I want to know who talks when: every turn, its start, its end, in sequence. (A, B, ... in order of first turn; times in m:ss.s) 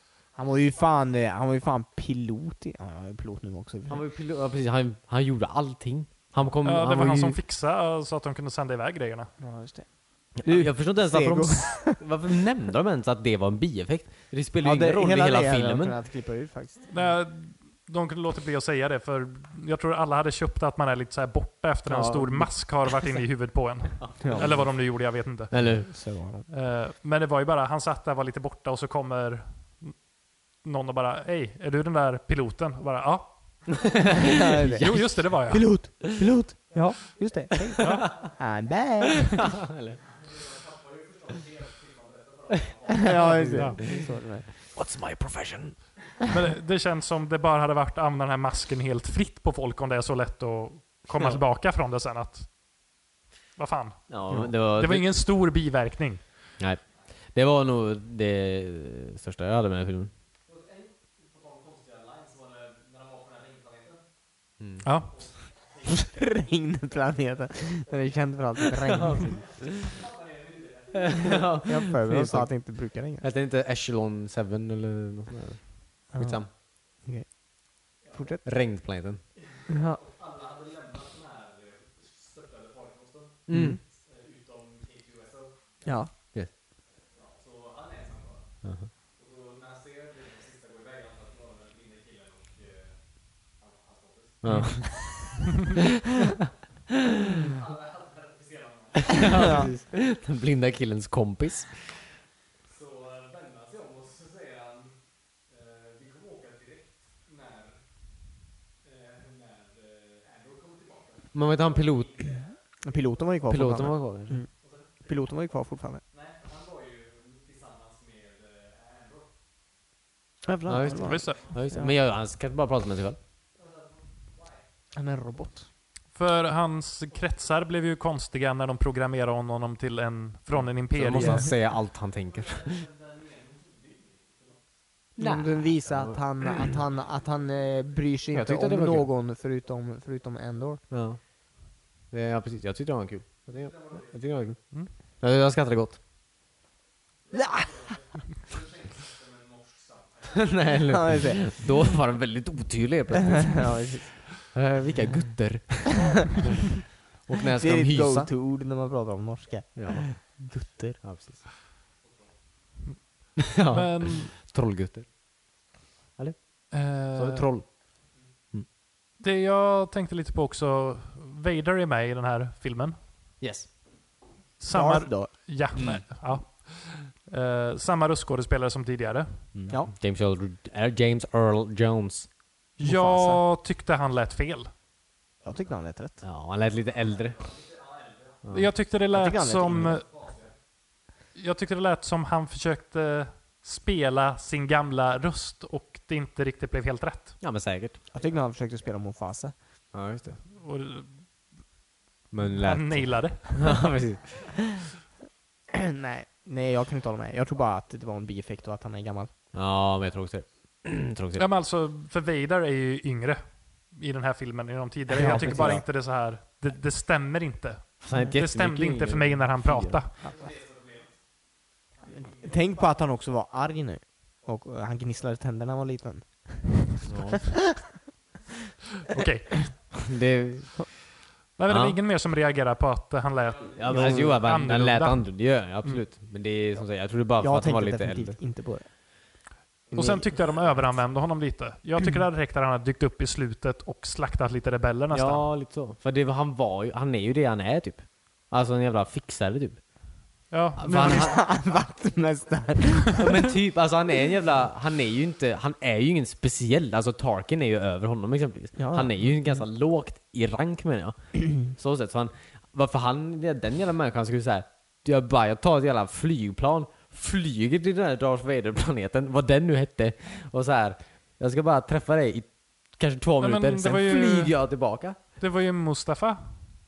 0:00.4-0:04.0 A
0:03.9-0:07.4 B
0:06.6-0:09.3 C
0:09.4-0:12.0 A
0:10.4-0:16.0 B
0:14.6-0:16.9 A
0:16.9-0:25.8 C
0:21.8-0:22.7 B
0:24.0-0:24.7 B
0:24.2-0:24.6 A
0:25.5-0:25.9 B
0:25.6-0:26.5 A
0:26.5-0:35.9 C
0:34.2-0:35.1 B
0:34.2-0:39.5 A
0:37.7-0:38.1 B
0:37.8-0:38.2 C
0:39.5-0:40.0 B
0:40.1-0:43.9 D
0:43.0-0:44.5 A
0:43.2-0:43.8 C
0:43.4-0:44.0 B
0:44.6-0:45.8 B
0:46.3-0:52.5 C
0:53.6-0:56.2 C
0:54.1-0:55.2 B
0:56.6-1:00.1 B
1:00.4-1:04.0 D
1:04.6-1:04.8 B
1:04.8-1:05.2 C
1:05.1-1:06.1 D
1:05.8-1:09.4 A
1:08.8-1:09.9 B
1:09.0-1:11.7 D
1:10.9-1:16.5 B
1:11.6-1:13.2 A
1:16.1-1:18.4 A
1:18.0-1:18.3 D
1:18.4-1:19.2 B
1:19.3-1:26.0 D
1:19.7-1:20.0 A
1:23.5-1:23.8 B
1:23.5-1:23.8 A
1:25.8-1:26.1 A
1:27.1-1:35.2 D
1:28.6-1:28.9 B
1:34.4-1:35.4 B
1:34.5-1:34.8 C
1:37.4-1:39.7 D
1:39.0-1:41.8 B
1:39.3-1:39.7 A
1:42.6-1:47.8 D
1:48.8-1:52.6 D
1:51.3-1:52.2 B
1:52.8-1:54.5 A
1:53.4-1:53.7 D
1:53.5-1:54.4 B
1:54.5-1:55.0 D
1:55.0-1:56.0 A
1:56.1-1:59.3 D
2:00.4-2:01.9 A
2:00.6-2:03.2 B
2:00.8-2:01.6 D
2:01.0-2:01.4 C
2:03.5-2:04.6 D
2:04.9-2:05.7 A
2:06.1-2:11.5 C
2:10.9-2:12.8 B
2:12.3-2:14.7 D
2:15.2-2:16.7 B
2:15.2-2:20.8 A
2:18.3-2:19.1 B
2:20.9-2:21.2 B
2:22.1-2:24.6 B
2:23.5-2:24.2 D
2:25.2-2:26.0 B
2:27.3-2:31.1 D
2:27.3-2:27.7 A
2:30.3-2:38.3 B
2:30.9-2:31.4 A
2:33.3-2:34.1 A
2:37.5-2:41.0 A
2:39.8-2:40.1 B
2:41.0-2:41.4 B
2:42.0-2:42.3 D
2:42.9-2:44.3 C
2:43.4-2:45.1 B
2:46.2-2:47.7 B
2:46.7-2:47.5 C
2:49.2-2:53.0 C
2:53.4-2:53.7 B
2:54.6-2:59.5 C
2:54.7-2:55.3 A
2:55.7-2:56.0 B
2:59.5-3:02.3 B
3:02.8-3:04.7 C
3:02.8-3:03.4 A
3:05.4-3:06.2 A
3:06.2-3:07.5 B
3:06.8-3:08.5 D
3:08.4-3:08.7 B
3:08.5-3:10.2 C
3:09.1-3:10.0 A
3:09.8-3:10.6 D
3:11.3-3:17.4 C
3:17.4-3:18.0 B
3:18.1-3:19.5 A
3:19.9-3:20.4 B
3:20.5-3:21.2 C
3:22.3-3:24.4 B
3:22.6-3:23.9 C
3:25.7-3:29.3 A
3:29.5-3:31.5 B
3:31.4-3:40.1 C
3:35.1-3:35.8 A
3:35.2-3:35.8 B
3:38.0-3:40.0 B
3:40.2-3:41.2 D
3:42.0-3:42.8 D
3:42.2-3:47.4 A
3:47.0-3:47.5 B
3:49.1-3:50.0 C
3:50.1-3:51.0 B
3:51.6-3:56.0 C
3:51.7-3:52.0 B
3:53.4-3:54.0 D
3:53.8-3:58.4 B
3:53.9-3:54.4 A
3:57.4-3:59.4 A
3:59.9-4:00.3 A
3:59.9-4:05.5 C
4:05.1-4:09.8 B
4:10.5-4:11.3 C
4:10.8-4:11.4 B
4:10.8-4:13.4 A
4:13.1-4:35.2 B
4:18.8-4:19.1 A
4:33.4-4:34.7 C
4:35.4-4:36.5 C